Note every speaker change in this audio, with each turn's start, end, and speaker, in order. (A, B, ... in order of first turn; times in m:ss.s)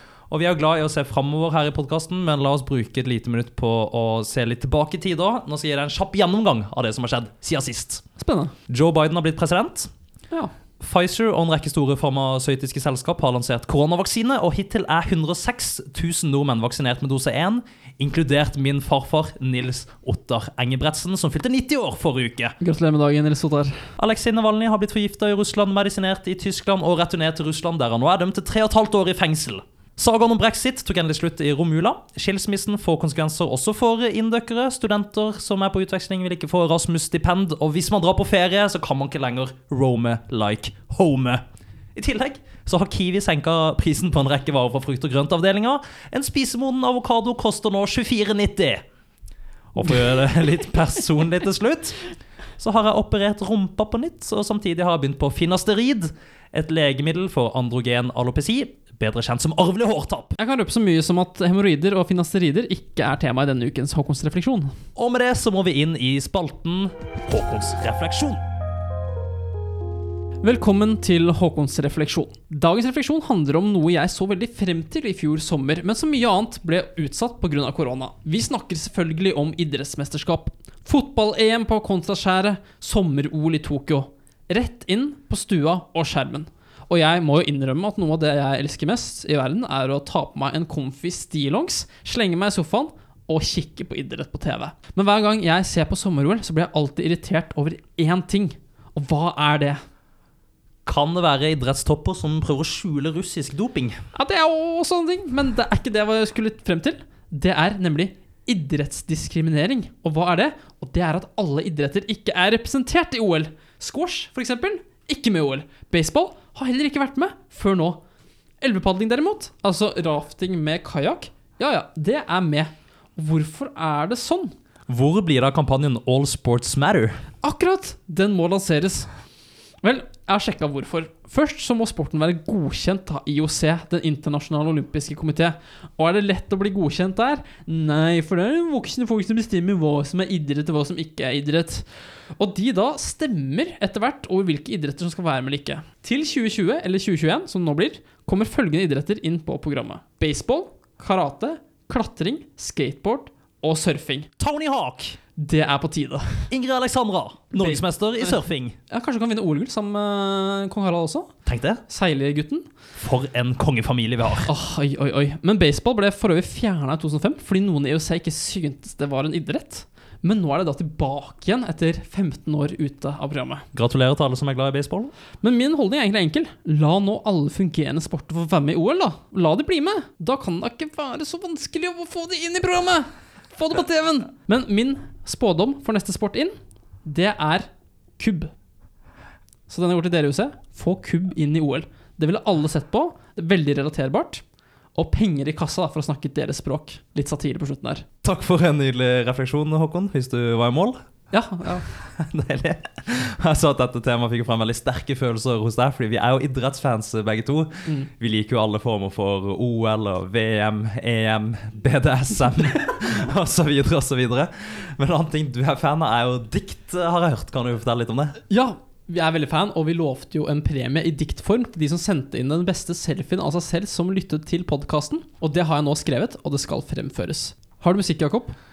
0:00.3-0:08.0 A
0:08.2-0:08.5 B
0:08.7-0:09.9 A
0:10.8-0:22.6 A
0:22.6-0:23.9 B
0:24.0-0:41.4 A
0:42.0-0:48.8 A
0:49.7-0:52.0 A
0:52.6-1:00.4 A
1:00.4-1:04.7 B
1:05.0-1:08.4 A
1:10.4-1:39.8 B
1:40.8-1:44.0 A
1:44.1-1:58.0 B
1:58.6-2:04.6 B
2:04.9-2:07.2 A
2:07.4-2:09.1 B
2:09.8-2:21.9 B
2:22.4-2:34.3 B
2:34.4-2:35.2 A
2:35.4-2:36.5 B
2:36.5-2:38.8 A
2:37.6-2:41.3 B
2:41.5-2:41.8 A
2:41.9-2:42.7 B
2:43.0-2:44.5 A
2:44.5-2:53.6 B
2:53.7-2:55.1 A
2:55.4-3:08.5 B
3:09.7-3:14.4 B
3:15.0-3:18.1 B
3:18.2-3:21.0 A
3:21.3-3:21.9 B
3:22.0-3:38.4 A
3:38.5-3:48.6 B